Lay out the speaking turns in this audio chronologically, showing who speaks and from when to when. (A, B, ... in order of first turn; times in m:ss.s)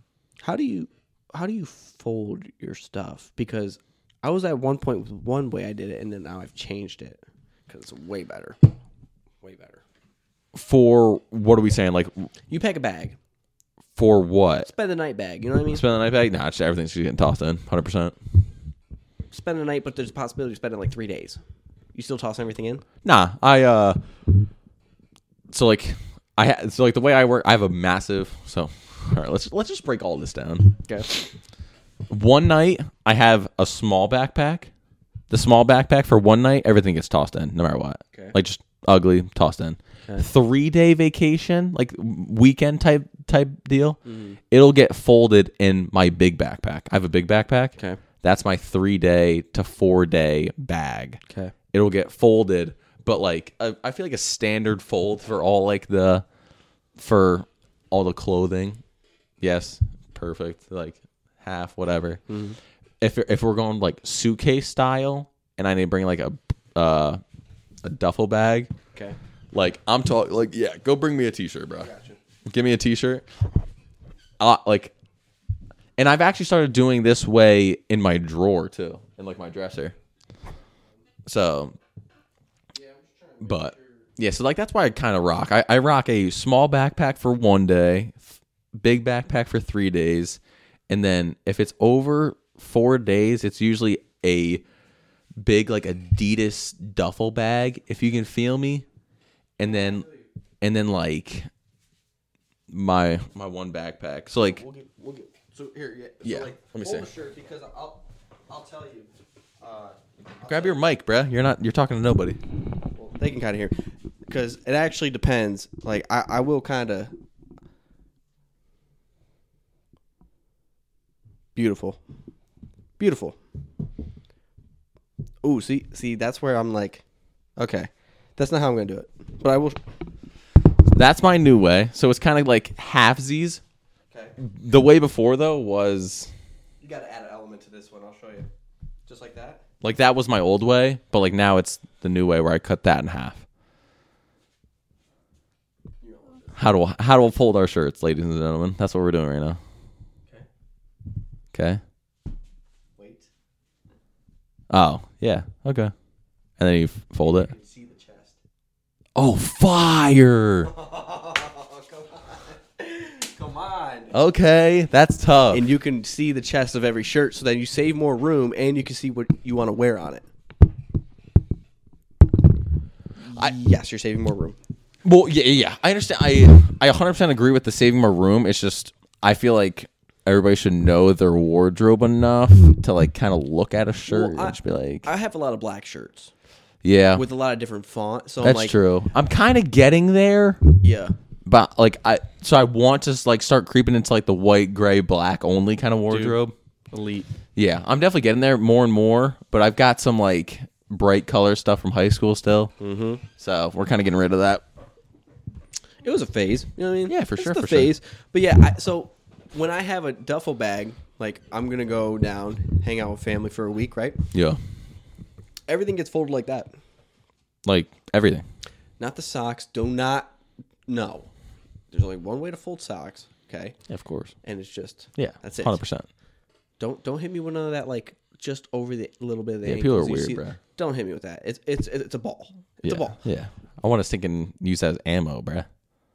0:00.4-0:08.6 A
0:09.4-0:09.8 A
0:10.5-0:12.3 B
0:12.5-0:13.2 A
0:14.0-0:14.7 B
0:14.6-0:15.8 A
0:15.7-0:18.2 B
0:19.3-0:21.4 A
0:21.9-0:22.8 A
0:23.0-0:24.0 B
0:25.5-0:31.3 B
0:32.1-0:34.7 B
0:35.3-0:44.0 B
0:44.0-0:44.4 A
0:44.5-0:51.2 B
0:51.3-0:51.5 A
0:51.7-0:56.2 B
0:57.0-0:58.8 B
0:59.4-1:02.2 B
1:02.3-1:02.6 A
1:03.0-1:07.2 B
1:07.8-1:08.7 B
1:09.5-1:11.9 B
1:11.8-1:12.2 A
1:12.4-1:13.2 B
1:14.4-1:14.9 B
1:16.0-1:19.9 B
1:21.2-1:21.8 B
1:22.7-1:23.9 A
1:23.4-1:34.6 B
1:35.4-1:38.8 B
1:39.6-1:40.1 B
1:39.6-1:40.2 A
1:40.6-1:41.5 B
1:42.7-1:44.6 B
1:44.6-1:50.8 A
1:46.2-1:47.1 B
1:50.4-1:52.4 B
1:52.9-1:57.1 A
2:01.5-2:02.0 A
2:03.0-2:03.4 A
2:05.4-2:07.0 A
2:07.6-2:09.8 A
2:10.9-2:13.6 B
2:14.4-2:16.3 B
2:16.8-2:18.5 A
2:19.1-2:19.6 A
2:19.8-2:23.4 B
2:26.0-2:26.4 A
2:26.5-2:29.6 B
2:31.5-2:31.8 B
2:33.0-2:33.3 A
2:34.7-2:35.9 B
2:36.6-2:37.5 B
2:37.3-2:38.4 A
2:39.2-2:40.7 B
2:40.7-2:44.1 A
2:44.1-2:45.6 B
2:45.5-2:50.2 A
2:53.2-2:54.6 A
2:55.0-3:05.1 B
3:04.0-3:06.3 A
3:06.8-3:07.2 B
3:07.1-3:08.7 A
3:08.4-3:10.7 B
3:10.8-3:11.1 A
3:11.4-3:16.5 B
3:16.1-3:16.4 A
3:16.9-3:17.3 A
3:17.5-3:22.7 B
3:22.8-3:23.2 A
3:23.4-3:24.6 B
3:26.0-3:34.2 A
3:27.1-3:27.9 B
3:34.3-3:34.6 B
3:35.7-3:36.7 A
3:37.6-3:38.4 B
3:39.0-3:40.3 A
3:40.9-3:41.3 A
3:41.9-3:43.8 A
3:43.9-3:44.3 B
3:44.4-3:45.8 A
3:45.1-3:46.1 B
3:46.8-3:53.2 A
3:49.6-3:50.6 B
3:52.8-3:55.7 B